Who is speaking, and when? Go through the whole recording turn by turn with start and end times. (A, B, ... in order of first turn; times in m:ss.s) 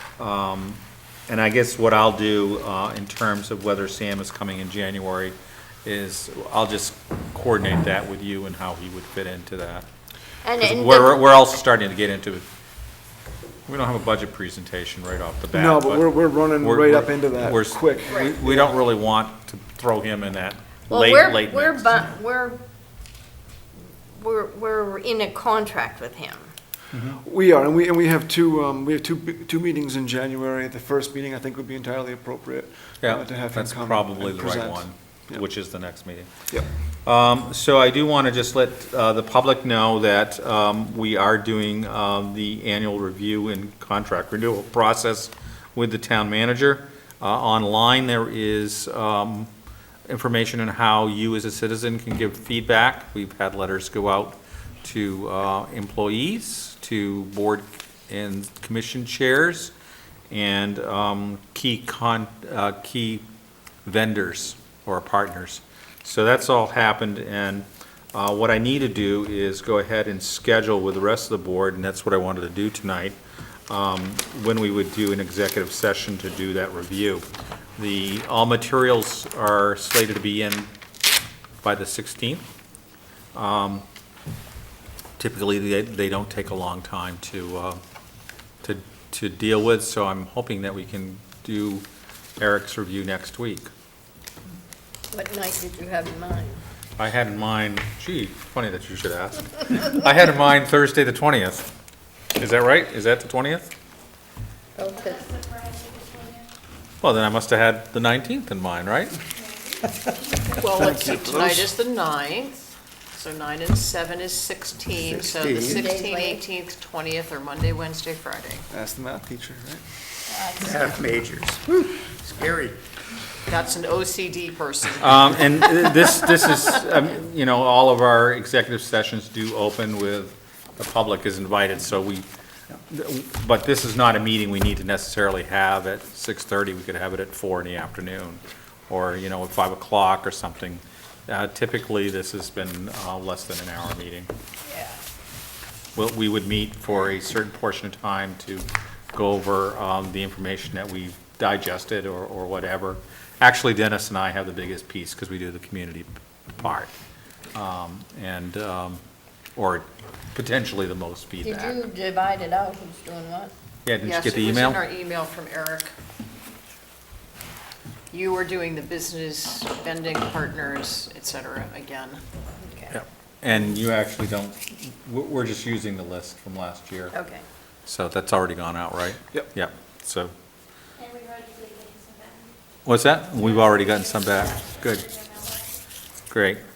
0:00.2-0:09.9 A
0:10.4-0:11.2 B
0:10.6-0:12.4 A
0:13.7-0:22.0 A
0:15.5-0:18.8 C
0:20.9-0:22.6 B
0:24.2-0:26.5 B
0:26.9-0:27.2 A
0:27.1-0:35.4 C
0:33.0-0:36.3 A
0:37.0-0:49.5 A
0:50.1-0:59.7 A
1:00.3-1:03.2 A
1:03.8-1:13.2 A
1:13.7-1:17.2 A
1:17.8-1:20.7 A
1:21.6-1:22.4 A
1:23.3-1:23.8 A
1:25.2-1:27.8 A
1:28.6-1:31.8 A
1:32.4-1:33.7 A
1:35.1-1:36.6 B
1:37.0-1:41.7 A
1:42.4-1:43.7 A
1:44.8-1:45.3 B
1:45.3-1:46.4 D
1:47.0-1:49.2 A
1:50.5-1:58.6 E
1:50.7-1:51.7 C
1:54.9-1:55.9 F
1:55.6-1:56.4 B
1:58.7-1:59.8 C
2:00.3-2:01.0 B
2:00.6-2:02.8 F
2:03.5-2:06.2 E
2:05.0-2:12.2 A
2:12.9-2:24.3 A
2:24.7-2:25.0 B
2:26.0-2:36.9 A
2:37.5-2:39.0 A
2:39.6-2:41.8 A
2:41.4-2:43.5 B
2:43.8-2:44.8 A
2:44.0-2:45.9 E
2:48.1-2:52.2 E
2:52.6-2:53.0 B
2:52.9-2:57.2 A
2:57.1-2:57.4 B
2:57.8-3:00.3 A
3:01.0-3:02.4 D
3:02.8-3:05.3 A
3:05.1-3:05.5 D
3:06.3-3:06.6 A